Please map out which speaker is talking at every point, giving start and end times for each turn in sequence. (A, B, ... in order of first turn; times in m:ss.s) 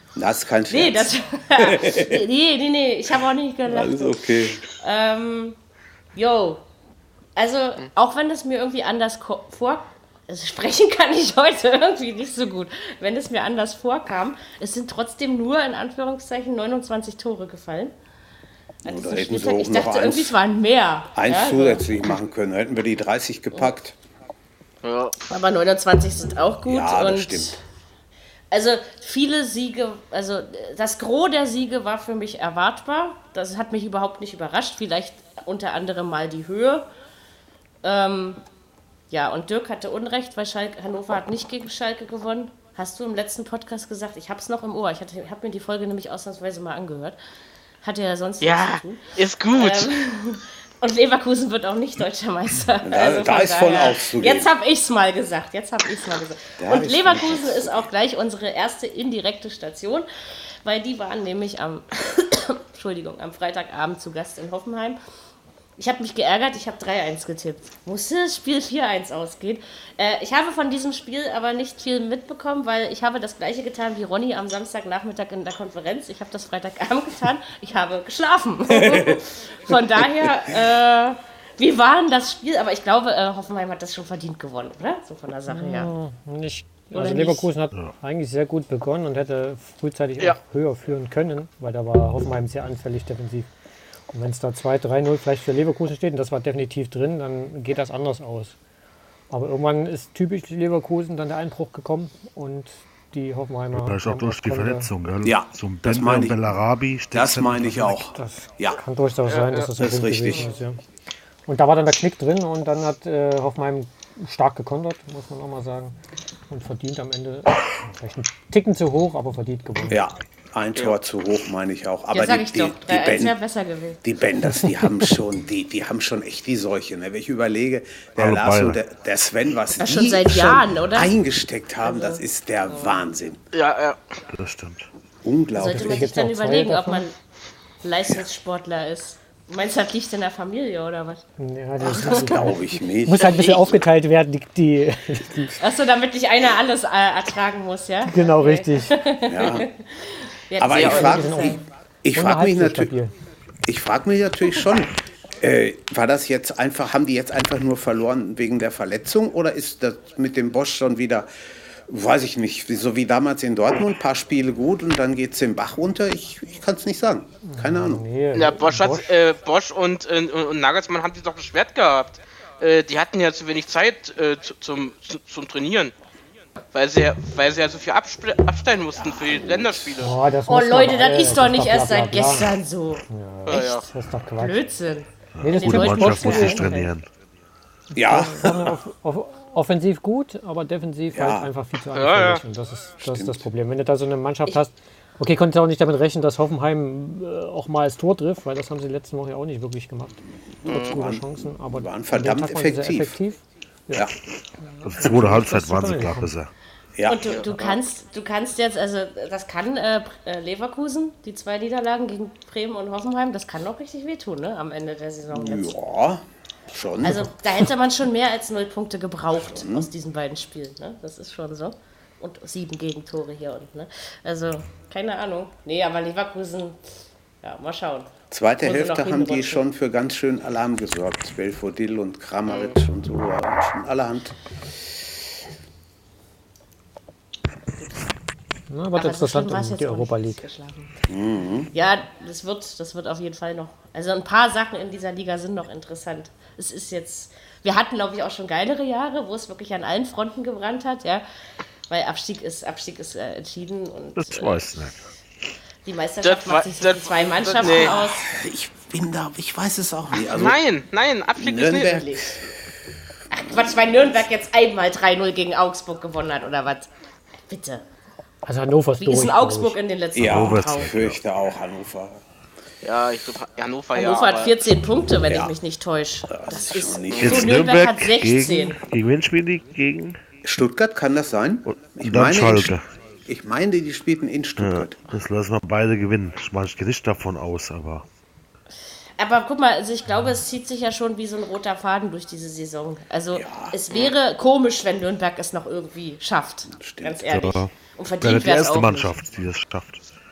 0:00.2-0:02.2 A
0:00.7-0:05.6 B
0:03.7-0:04.6 A
0:06.2-0:06.6 B
0:07.4-0:17.9 B
0:18.8-0:20.4 A
0:18.8-0:21.9 B
0:21.2-0:24.0 A
0:24.8-0:25.2 C
0:25.3-0:27.6 B
0:26.6-0:27.6 A
0:28.5-0:36.9 B
0:37.8-0:38.4 B
0:39.1-0:47.2 B
0:47.8-1:00.1 B
0:48.4-0:49.9 C
0:52.8-0:54.5 A
0:56.6-0:57.9 A
1:00.6-1:05.0 B
1:05.8-1:25.9 B
1:18.7-1:19.2 A
1:20.0-1:20.3 A
1:25.5-1:33.5 D
1:26.9-1:27.5 B
1:34.1-1:38.6 D
1:39.3-1:44.9 D
1:43.7-1:48.0 E
1:45.2-1:46.6 A
1:47.1-1:48.8 A
1:48.1-1:50.8 D
1:49.3-1:49.7 C
1:49.8-1:50.5 A
1:51.5-1:56.0 D
1:56.5-2:00.0 D
1:59.9-2:03.4 A
2:02.1-2:04.0 B
2:04.0-2:13.4 A
2:08.2-2:08.8 E
2:09.8-2:11.1 B
2:11.8-2:13.0 B
2:13.5-2:14.0 C
2:14.3-2:14.9 E
2:15.2-2:16.1 A
2:15.5-2:17.1 B
2:15.6-2:17.1 D
2:17.8-2:21.2 B
2:21.4-2:25.6 D
2:21.8-2:22.6 B
2:22.1-2:23.6 A
2:25.6-2:31.7 B
2:28.1-2:29.0 D
2:29.3-2:29.7 A
2:30.6-2:32.9 A
2:30.7-2:31.1 C
2:30.8-2:31.6 D
2:32.1-2:33.1 D
2:33.6-2:41.3 A
2:41.9-2:48.0 A
2:47.4-2:49.2 D
2:48.4-2:55.9 C
2:56.7-3:00.1 C
2:59.0-3:00.1 A
3:00.0-3:02.5 D
3:00.5-3:03.8 B
3:03.1-3:04.6 D
3:03.5-3:03.9 C
3:04.4-3:06.9 B
3:05.4-3:07.1 E
3:05.4-3:06.9 D
3:07.9-3:24.1 D
3:07.9-3:08.7 A
3:11.1-3:11.5 A
3:11.9-3:12.4 C
3:13.0-3:13.4 A
3:20.6-3:23.2 A
3:20.7-3:21.0 C
3:24.7-3:26.3 D
3:24.8-3:26.5 E
3:27.0-3:27.3 A
3:27.1-3:35.7 B
3:27.3-3:27.8 C
3:35.3-3:37.3 A
3:37.0-3:46.8 B
3:39.5-3:39.9 A
3:47.4-3:49.6 B
3:48.3-3:54.4 A
3:58.7-4:00.4 D
3:59.0-4:00.9 B
4:01.1-4:01.7 A
4:01.7-4:11.2 B
4:11.9-4:14.8 B
4:14.2-4:15.1 E
4:15.8-4:18.3 B
4:16.2-4:18.0 C
4:17.7-4:20.6 A
4:20.2-4:22.0 C
4:21.4-4:22.4 A
4:21.9-4:22.4 B
4:23.3-4:26.9 B
4:23.4-4:24.2 A
4:27.5-4:27.8 B
4:28.4-4:29.8 D
4:29.0-4:31.0 B
4:30.2-4:32.2 A
4:30.2-4:31.2 E
4:32.8-4:34.6 C
4:33.9-4:38.8 B
4:35.3-4:35.6 A
4:36.3-4:37.6 A
4:37.2-4:40.2 E
4:40.4-4:42.8 A
4:41.7-4:42.8 E
4:43.3-4:45.1 A
4:44.6-4:48.1 E
4:49.2-4:59.1 B
4:53.3-4:53.8 A
4:56.7-4:57.3 A
4:57.3-5:00.0 E